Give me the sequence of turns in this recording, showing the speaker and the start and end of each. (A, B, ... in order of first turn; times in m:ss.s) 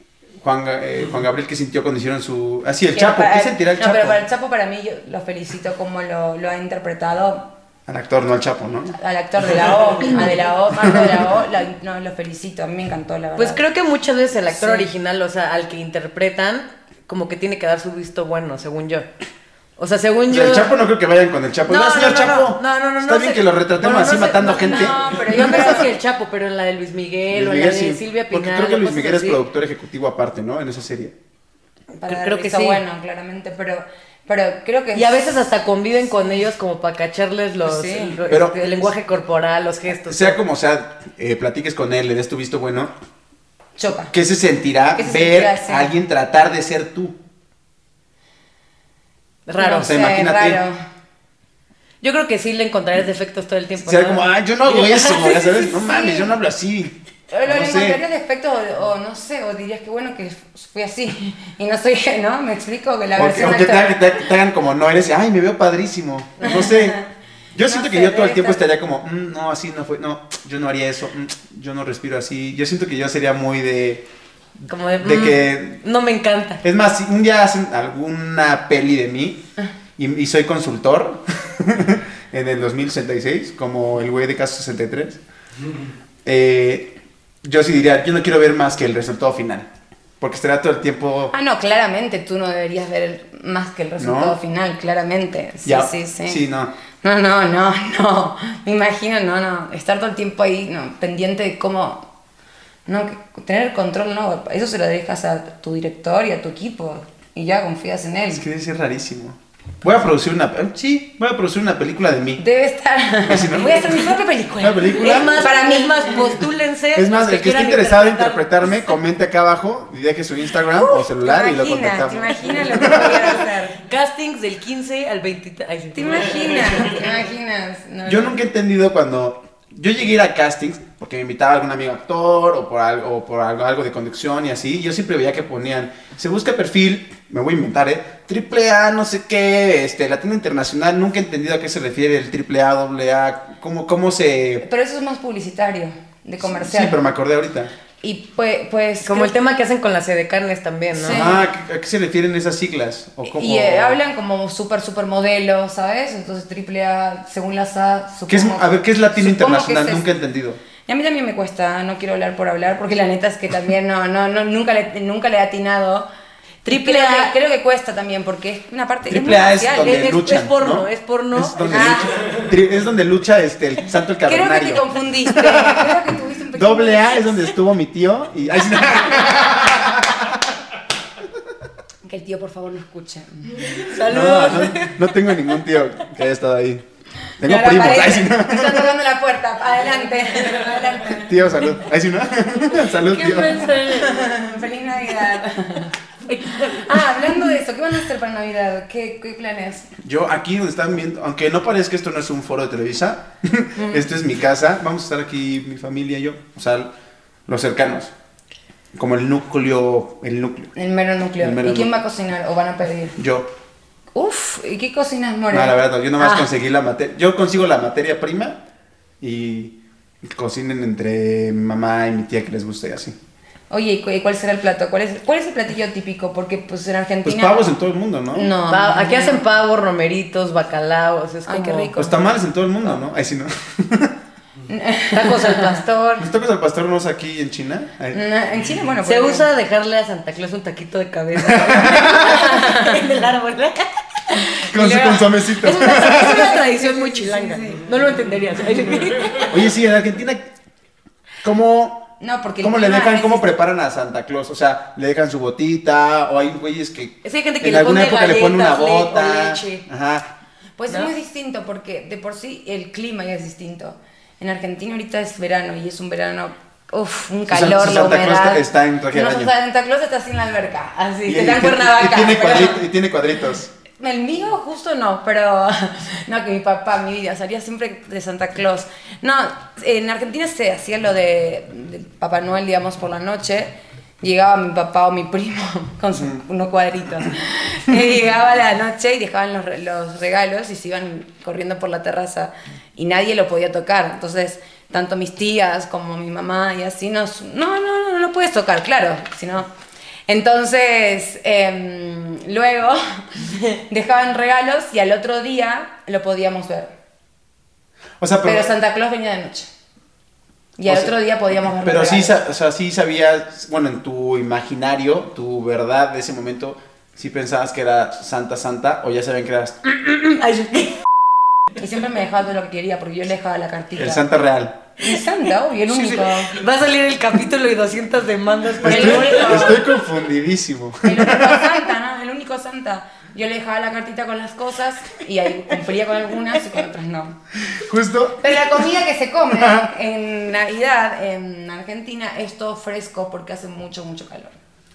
0:00.4-0:04.2 A
0:02.9-0:07.5 B
0:07.9-0:08.9 A
0:08.9-0:13.6 B
0:10.8-0:11.2 A
0:13.4-0:19.1 C
0:14.5-0:14.9 B
0:19.8-0:20.7 C
0:20.3-0:25.8 A
0:21.7-0:29.4 C
0:24.5-0:25.9 B
0:27.3-0:31.1 A
0:32.0-0:35.4 B
0:32.0-0:32.8 C
0:34.9-0:40.4 C
0:37.6-0:38.2 B
0:38.3-0:38.8 A
0:40.1-0:42.9 A
0:43.8-0:44.1 B
0:44.0-0:47.2 A
0:45.0-0:45.9 B
0:49.5-0:49.9 C
0:49.6-0:50.8 B
0:49.8-0:50.6 A
0:52.0-0:55.6 C
0:53.8-0:58.0 A
0:55.1-0:56.4 B
0:57.3-1:04.2 B
1:03.2-1:07.0 A
1:06.4-1:07.0 B
1:07.5-1:14.0 A
1:07.6-1:08.6 B
1:14.7-1:16.6 C
1:15.0-1:15.8 A
1:16.6-1:19.4 A
1:20.0-1:25.2 A
1:26.2-1:29.7 A
1:30.2-1:31.3 A
1:31.3-1:36.4 B
1:34.0-1:34.4 A
1:35.6-1:36.7 A
1:37.0-1:42.1 B
1:42.8-1:48.4 B
1:48.3-1:52.4 A
1:52.4-1:56.4 B
1:53.2-1:55.5 A
1:55.0-1:58.9 C
1:56.9-2:03.4 A
2:00.7-2:03.8 B
2:03.7-2:06.9 C
2:05.9-2:08.4 B
2:08.0-2:24.6 A
2:24.6-2:27.0 B
2:26.4-2:27.7 A
2:28.0-2:29.3 B
2:29.0-2:31.3 C
2:30.9-2:31.4 B
2:31.1-2:34.0 A
2:33.2-2:40.1 B
2:38.3-2:40.6 A
2:40.8-2:46.1 B
2:46.6-2:47.3 C
2:46.6-2:50.0 B
2:49.1-3:00.4 A
2:49.8-2:52.1 C
2:51.7-2:52.4 B
2:54.2-2:57.4 B
3:02.0-3:03.9 B
3:03.6-3:05.4 C
3:04.1-3:06.8 A
3:07.4-3:08.9 A
3:07.4-3:11.5 B
3:11.1-3:13.7 A
3:12.9-3:14.3 C
3:13.6-3:19.9 B
3:16.3-3:17.4 C
3:20.0-3:26.9 A
3:23.8-3:24.0 B
3:27.5-3:28.1 A
3:28.9-3:30.7 A
3:30.7-3:33.2 B
3:31.4-3:31.9 A
3:33.2-3:33.5 A
3:34.1-3:36.5 B
3:35.5-3:38.6 A
3:39.2-3:43.2 A
3:43.7-3:47.7 B
3:47.2-3:48.5 A
3:48.3-3:49.4 B
3:48.7-3:51.9 C
3:51.5-3:52.4 B
3:52.0-3:54.2 A
3:54.7-3:55.8 B
3:55.1-3:56.3 C
3:56.2-3:58.2 A
3:58.1-3:59.5 B
3:59.0-4:03.9 C
4:01.4-4:02.4 A
4:01.9-4:03.0 B
4:04.3-4:08.0 B
4:04.6-4:06.5 A
4:05.6-4:09.6 C
4:09.5-4:10.5 A
4:11.4-4:12.1 A
4:12.2-4:13.5 B
4:12.6-4:20.3 A
4:17.2-4:19.8 C
4:20.8-4:32.8 B
4:27.5-4:29.5 A
4:31.2-4:33.7 A
4:34.0-4:59.7 B
4:46.1-4:46.4 A
5:00.3-5:06.9 B
5:08.2-5:08.7 A
5:08.4-5:09.7 B
5:10.8-5:12.4 B
5:10.8-5:11.1 A
5:11.8-5:19.8 A
5:19.9-5:21.0 C
5:21.8-5:24.2 B
5:24.0-5:24.8 A
5:25.0-5:26.6 B
5:25.9-5:26.2 A
5:26.5-5:29.7 C
5:28.8-5:31.7 A
5:28.8-5:29.8 B
5:31.0-5:37.4 B
5:37.6-5:38.8 A
5:38.4-5:44.6 B
5:39.5-5:39.9 A